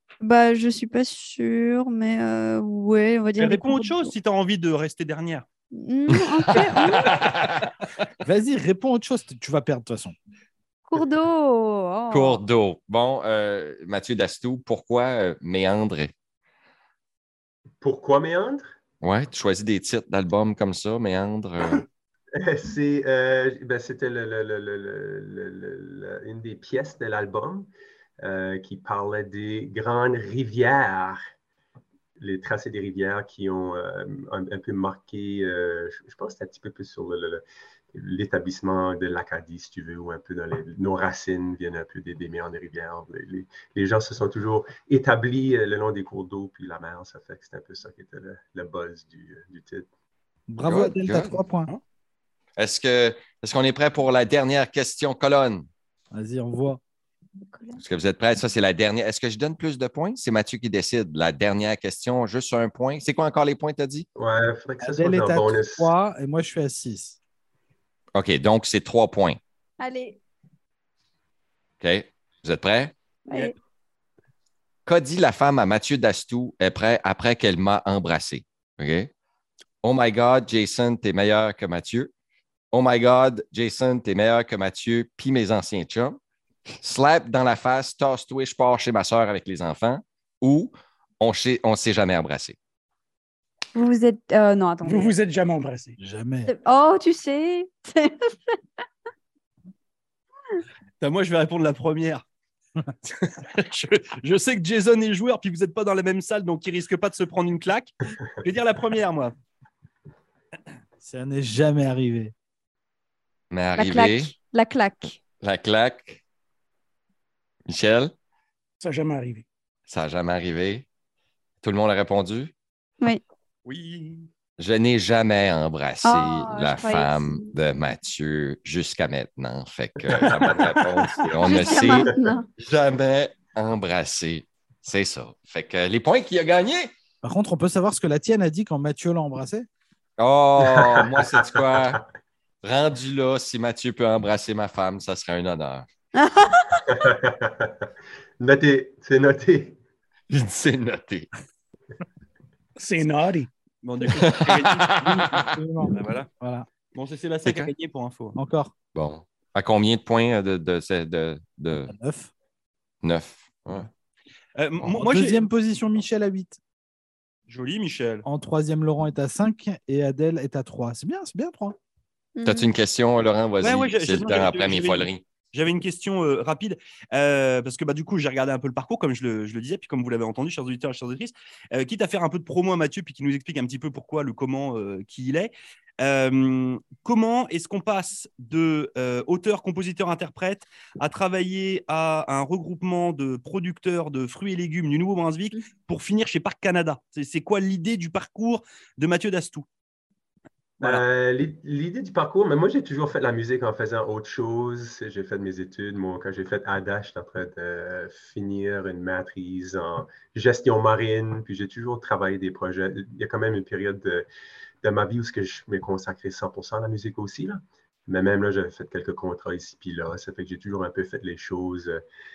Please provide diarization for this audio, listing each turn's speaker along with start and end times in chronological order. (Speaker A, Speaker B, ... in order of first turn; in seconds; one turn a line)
Speaker A: 0.2-4.1
Speaker B: 3.4-5.5
Speaker A: 5.7-7.2
Speaker C: 6.1-7.7
Speaker D: 8.2-10.2
Speaker A: 10.9-12.4
Speaker C: 12.1-16.1
Speaker E: 17.8-18.7
Speaker C: 19.0-21.9
Speaker E: 22.4-27.7
Speaker E: 28.2-31.2
Speaker E: 32.2-37.4
Speaker E: 37.9-49.9
Speaker D: 50.5-51.7
Speaker C: 50.6-51.4
Speaker C: 52.6-55.7
Speaker D: 56.1-56.8
Speaker A: 57.5-57.8
Speaker C: 57.8-64.1
Speaker E: 64.2-65.9
Speaker D: 64.8-67.2
Speaker C: 68.1-69.4
Speaker A: 69.8-70.2
Speaker C: 71.8-73.0
Speaker A: 73.3-73.5
Speaker C: 74.9-79.1
Speaker C: 79.8-82.1
Speaker C: 82.7-86.2
Speaker C: 86.8-92.6
Speaker A: 93.8-95.2
Speaker F: 94.8-96.0
Speaker D: 96.0-96.5
Speaker A: 96.5-98.6
Speaker B: 101.0-102.2
Speaker B: 103.1-109.3
Speaker D: 111.0-112.3
Speaker C: 113.5-114.3
Speaker A: 113.8-115.2
Speaker C: 115.4-116.2
Speaker C: 117.7-118.1
Speaker F: 118.8-119.5
Speaker C: 119.9-120.9
Speaker C: 121.6-122.5
Speaker B: 123.6-124.3
Speaker C: 124.6-136.9
Speaker A: 126.0-127.5
Speaker E: 130.1-130.8
Speaker A: 131.4-132.5
Speaker D: 137.2-139.7
Speaker C: 140.2-142.0
Speaker E: 140.6-142.0
Speaker C: 142.6-145.9
Speaker A: 146.1-146.8
Speaker E: 146.9-147.9
Speaker E: 148.4-149.8
Speaker C: 150.3-151.3
Speaker F: 152.8-153.5
Speaker B: 153.8-155.1
Speaker C: 154.0-155.5
Speaker D: 155.0-156.7
Speaker B: 155.9-156.3
Speaker B: 156.9-158.4
Speaker C: 157.4-157.7
Speaker D: 158.3-158.7
Speaker C: 158.9-161.9
Speaker D: 161.9-162.3
Speaker C: 163.0-163.9
Speaker B: 164.6-165.4
Speaker D: 164.9-166.6
Speaker B: 167.5-168.2
Speaker D: 168.2-171.8
Speaker A: 172.4-172.7
Speaker C: 172.4-175.2
Speaker B: 173.6-199.7
Speaker E: 200.8-214.3
Speaker E: 214.8-222.0